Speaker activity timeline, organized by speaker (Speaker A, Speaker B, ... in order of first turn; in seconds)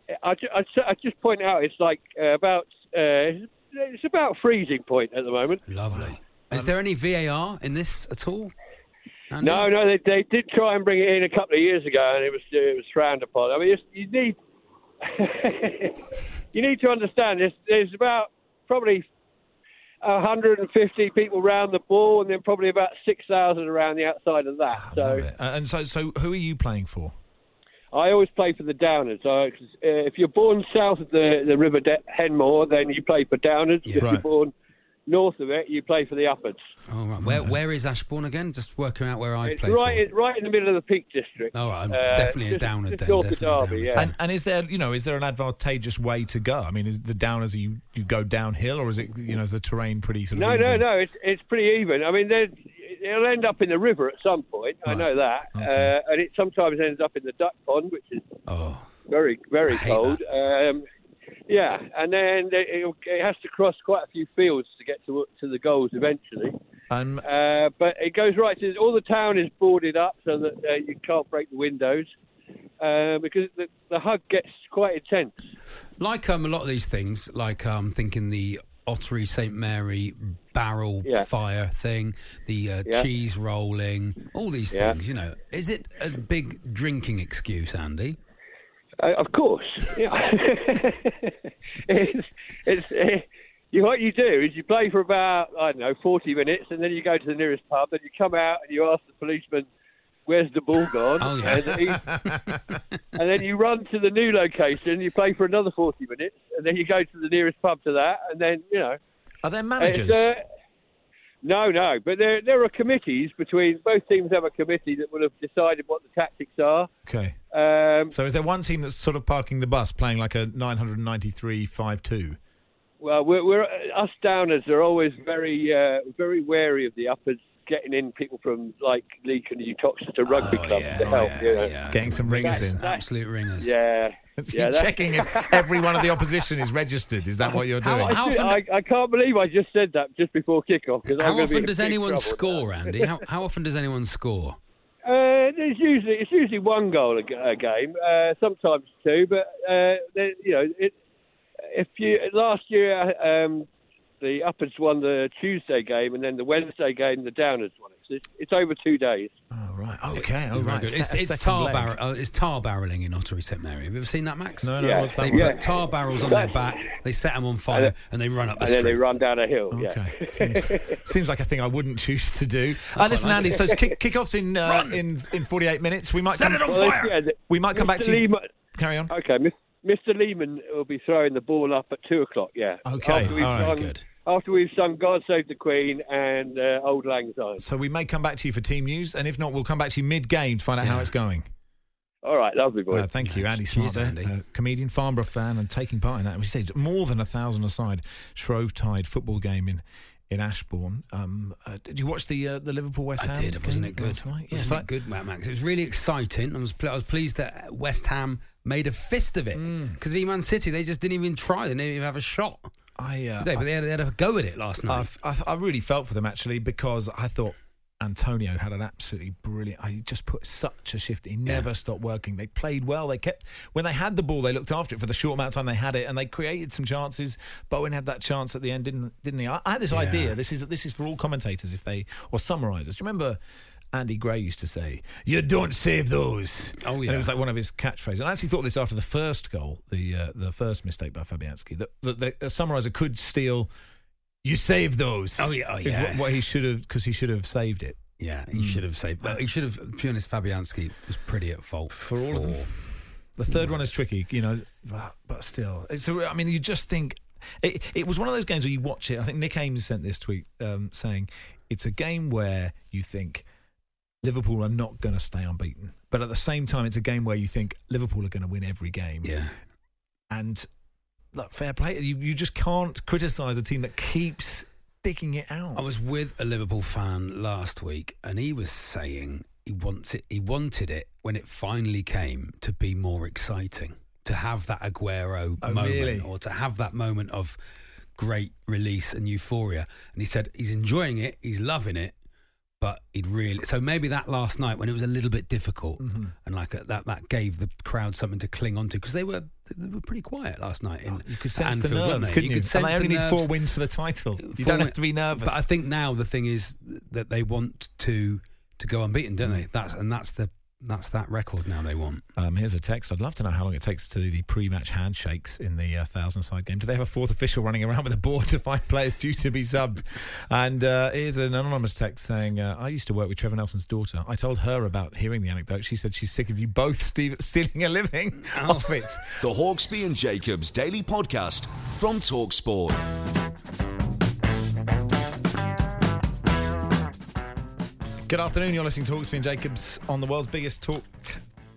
Speaker A: 0.2-5.6, 9.4-14.4, 15.0-19.1, 20.0-25.2, 27.9-34.5, 35.1-36.6, 39.5-44.0, 50.3-58.3, 59.1-60.9, 61.5-66.5, 67.2-72.1, 72.8-75.5, 89.0-99.7, 100.3-102.0, 103.2-109.0, 109.8-110.4, 111.4-116.9, 117.5-118.1, 123.0-131.8, 132.3-133.0, 133.6-136.1, 138.0-143.2, 145.1-150.9, 151.7-153.7, 154.2-159.3, 164.8-166.9, 168.6-171.0, 176.7-178.5, 179.1-187.6, 192.2-193.1
Speaker B: 5.7-8.5, 9.3-9.7, 36.9-40.1, 41.5-44.1, 58.5-58.9, 59.7-60.2, 76.0-88.2, 101.2-102.8, 130.3-133.8, 137.8-138.6, 141.1-144.6, 160.2-169.0, 172.9-173.7, 174.7-175.0, 176.3-177.2, 183.1-184.0, 190.8-191.1, 193.2-194.3, 203.2-212.7, 213.4-215.1, 229.9-230.3, 236.8-237.3, 245.4-246.5, 248.2-252.7, 253.5-253.8, 269.2-269.5, 275.8-287.6, 288.2-292.1, 292.8-303.5, 304.4-312.2, 328.5-329.2
Speaker C: 5.9-6.7, 24.7-27.1, 34.0-34.2, 37.2-37.6, 44.0-50.9, 54.9-55.9, 66.9-67.2, 101.6-102.4, 109.4-110.3, 117.1-117.4, 118.1-122.4, 130.9-131.3, 131.9-132.8, 134.4-138.2, 159.5-162.0, 164.6-165.6, 169.7-179.1, 182.8-183.8, 187.6-191.5, 192.9-204.9, 209.5-210.0, 213.0-213.7, 214.9-233.4, 233.9-243.7, 244.4-249.4, 251.9-252.7, 253.4-263.5, 264.2-269.4, 270.3-270.7, 271.3-275.9, 285.6-286.3, 296.0-296.3, 301.1-305.7, 312.4-329.2, 338.3-341.4
Speaker D: 329.4-333.0